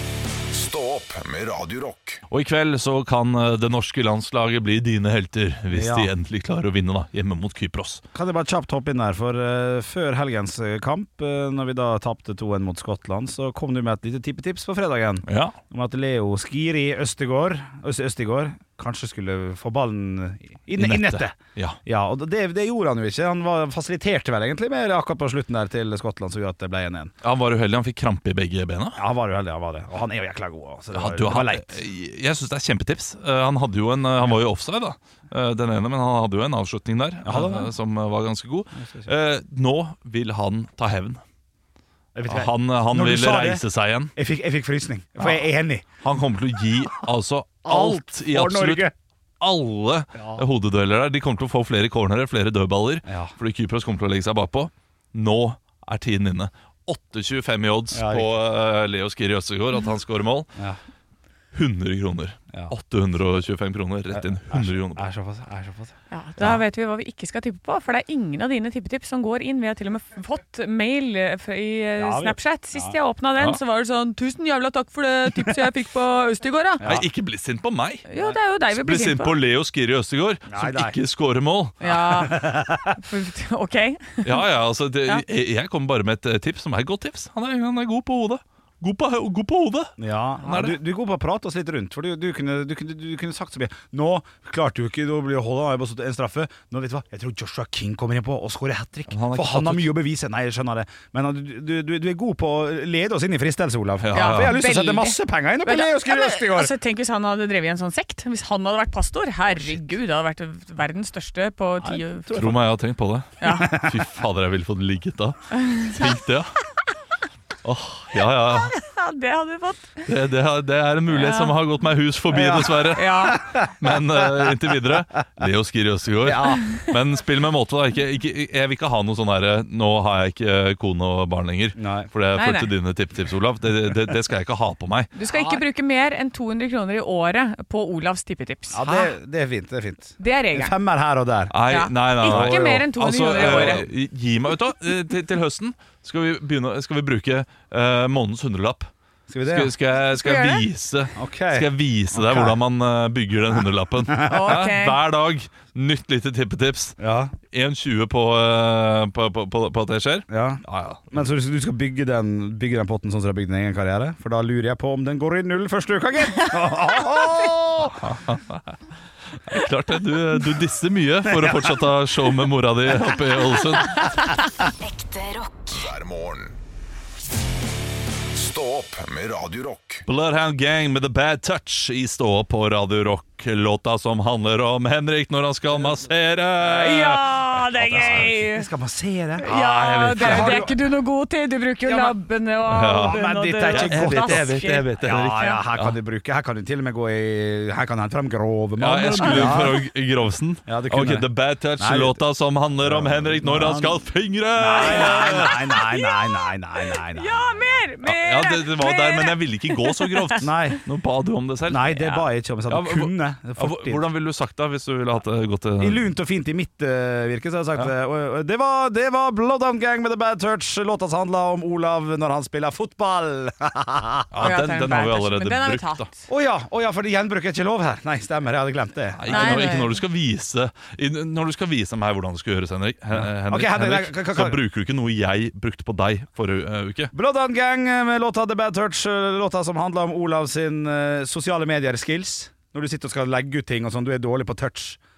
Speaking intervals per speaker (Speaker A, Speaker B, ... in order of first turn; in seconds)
Speaker A: 0.5-2.2, 174.8-176.6, 178.3-180.0
Speaker B: 2.3-8.0, 15.3-15.6, 20.8-21.8, 27.2-29.0, 30.9-41.2, 42.3-44.1, 46.0-60.5, 61.5-65.0, 76.8-78.2, 78.7-81.9, 84.2-89.9, 90.4-90.8, 99.1-99.9, 104.0-104.6, 112.3-116.5, 117.6-118.8, 120.0-135.1, 138.8-139.1, 141.5-148.9, 149.5-157.0, 157.5-161.2, 167.9-168.8, 169.5-174.3, 180.1-187.2, 187.9-188.3, 190.2-190.7, 192.7-195.9, 198.8-205.7, 208.0-216.0, 224.3-226.1, 229.2-237.1
Speaker C: 5.7-6.1, 8.1-27.1, 28.9-31.7, 37.2-37.7, 38.8-39.1, 42.1-43.6, 44.1-45.9, 47.6-48.9, 50.1-50.4, 53.0-53.3, 57.9-58.3, 64.1-65.9, 72.0-72.9, 76.8-77.0, 80.5-81.0, 82.0-83.0, 90.0-106.7, 111.8-112.6, 113.4-114.0, 122.3-123.7, 126.3-126.6, 131.8-132.1, 135.3-135.6, 138.7-141.5, 142.2-142.6, 143.3-143.9, 149.3-149.7, 151.1-152.6, 154.2-154.6, 157.0-157.3, 160.3-168.1, 171.3-171.8, 186.8-187.2, 187.7-190.7, 191.8-192.2, 192.9-199.8, 200.7-202.2, 202.8-204.0, 204.6-207.5, 210.4-210.8, 211.7-214.0, 215.8-224.5, 226.3-229.7, 233.1-234.6, 237.1-245.0
Speaker D: 66.1-76.8, 78.1-79.3, 81.8-84.4, 104.1-112.3, 113.4-113.8, 115.6-116.1, 118.5-120.1, 121.1-121.5, 122.9-123.4, 126.4-126.9, 132.4-132.7, 135.1-138.8, 140.2-140.7, 141.7-143.8, 150.0-150.6, 154.2-154.9, 186.6-188.7, 189.4-195.6, 199.2-199.6, 204.6-210.4, 224.4-226.2, 229.3-230.0